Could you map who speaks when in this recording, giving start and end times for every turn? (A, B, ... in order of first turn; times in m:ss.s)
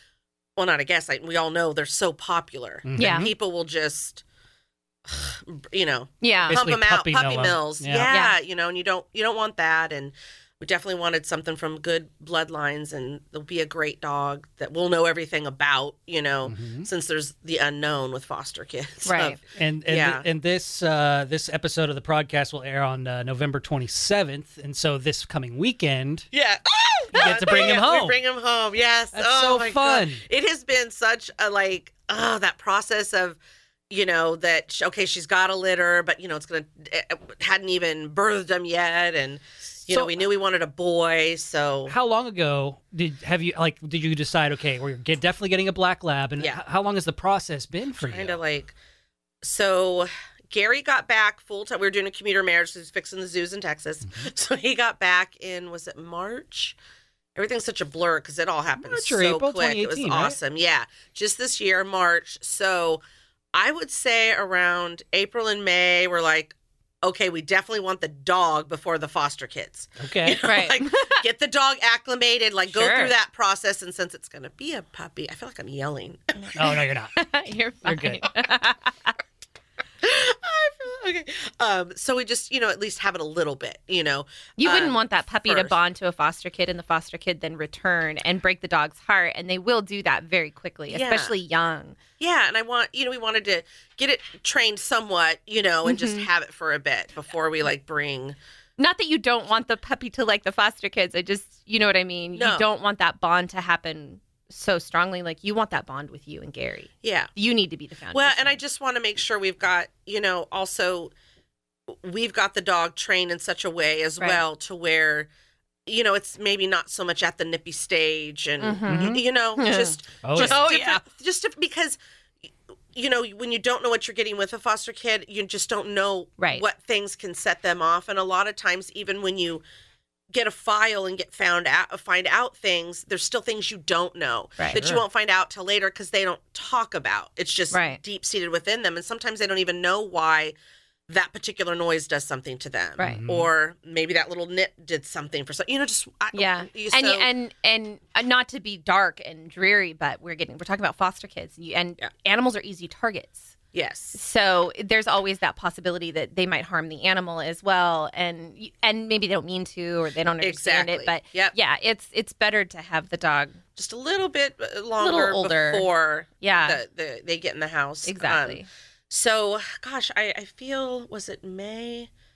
0:00.6-0:04.2 A
0:02.9-0:03.3 B
0:03.0-0:03.3 C
0:05.1-0:20.3 A
0:06.2-0:06.6 C
0:06.5-0:08.1 B
0:08.1-0:08.4 C
0:16.4-0:16.9 B
0:19.0-0:19.4 C
0:19.5-0:26.3 B
0:26.3-0:33.4 A
0:27.1-0:28.2 B
0:29.1-0:30.2 B
0:33.9-0:42.0 A
0:39.9-0:40.2 B
0:41.9-0:48.4 B
0:48.0-0:48.8 A
0:49.4-0:56.8 A
0:57.4-1:03.0 A
0:58.8-1:00.4 B
1:03.6-1:16.6 A
1:10.0-1:10.4 B
1:10.4-1:11.2 C
1:12.7-1:13.1 C
1:16.6-1:17.2 B
1:17.1-1:19.1 C
1:17.8-1:18.3 B
1:20.0-1:25.8 A
1:24.6-1:32.0 C
1:30.9-1:31.3 A
1:32.2-1:38.4 A
1:35.8-1:36.3 C
1:38.8-1:48.6 C
1:42.4-1:42.6 A
1:47.0-1:47.3 A
1:48.1-1:51.1 A
1:51.9-1:55.3 A
1:55.9-2:02.0 A
1:58.6-2:01.0 C
1:58.9-1:59.2 B
2:00.2-2:00.7 B
2:02.9-2:09.6 A
2:06.4-2:06.6 C
2:10.3-2:20.6 A
2:14.8-2:15.0 B
2:17.7-2:18.0 C
2:21.1-2:27.3 A
2:23.0-2:23.2 C
2:23.0-2:23.5 B
2:26.3-2:33.5 C
2:33.7-2:34.2 A
2:34.1-2:43.6 C
2:40.4-2:41.6 A
2:43.8-2:52.1 A
2:45.0-2:45.9 C
2:46.4-2:46.8 C
2:48.0-2:48.7 C